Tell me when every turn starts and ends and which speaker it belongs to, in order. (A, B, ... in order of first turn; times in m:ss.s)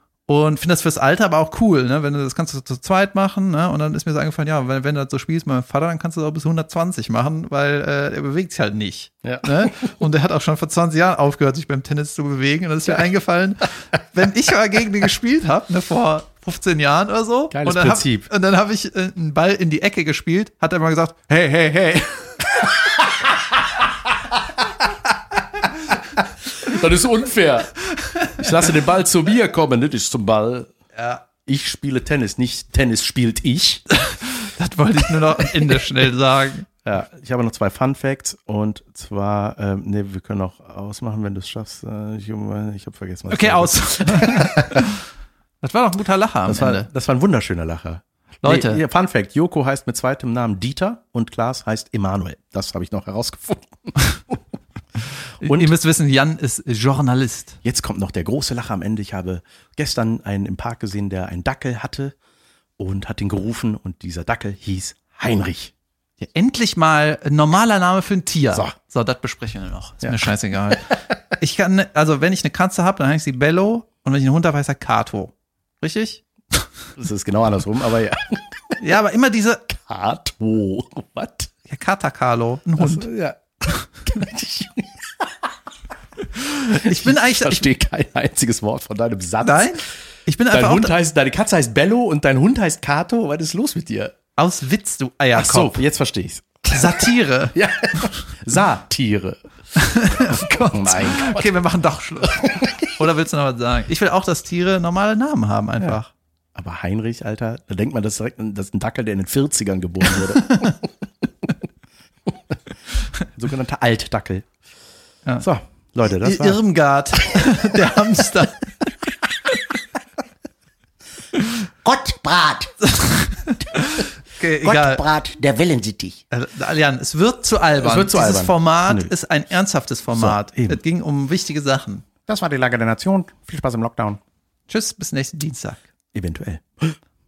0:00.3-0:22.7 A
0:09.2-0:09.9 B
0:17.5-0:18.3 B
0:26.2-0:27.8 B
0:28.0-0:28.3 A
0:28.3-0:30.7 B
0:31.0-0:31.2 A
0:31.4-0:33.8 B
0:33.9-0:36.7 A
0:36.8-0:44.9 B
0:43.3-0:45.0 A
0:45.6-0:46.9 A
0:46.5-0:54.4 B
0:48.4-0:48.8 A
0:55.4-0:57.6 A
0:55.4-0:55.7 B
0:57.6-1:02.2 B
1:02.8-1:05.7 B
1:06.2-1:16.7 A
1:17.0-1:18.8 B
1:18.8-1:19.7 A
1:19.7-1:21.5 B
1:21.7-1:23.1 A
1:22.8-1:25.3 B
1:26.4-1:27.7 A
1:26.6-1:29.8 B
1:29.4-1:31.0 A
1:30.5-1:34.2 B
1:34.4-1:35.8 A
1:35.4-1:39.4 B
1:36.7-1:38.1 A
1:39.8-1:46.1 A
1:40.1-1:41.5 B
1:42.5-1:42.9 B
1:46.6-1:50.8 B
1:50.5-1:50.8 A
1:53.4-1:54.5 B
1:55.4-1:56.6 B
1:56.2-1:58.7 A
2:01.8-2:02.7 B
2:02.9-2:05.1 A
2:04.6-2:06.2 B
2:06.3-2:12.1 A
2:07.8-2:09.1 B
2:10.1-2:10.8 B
2:12.3-2:14.2 B
2:14.7-2:15.8 A
2:16.1-2:17.0 B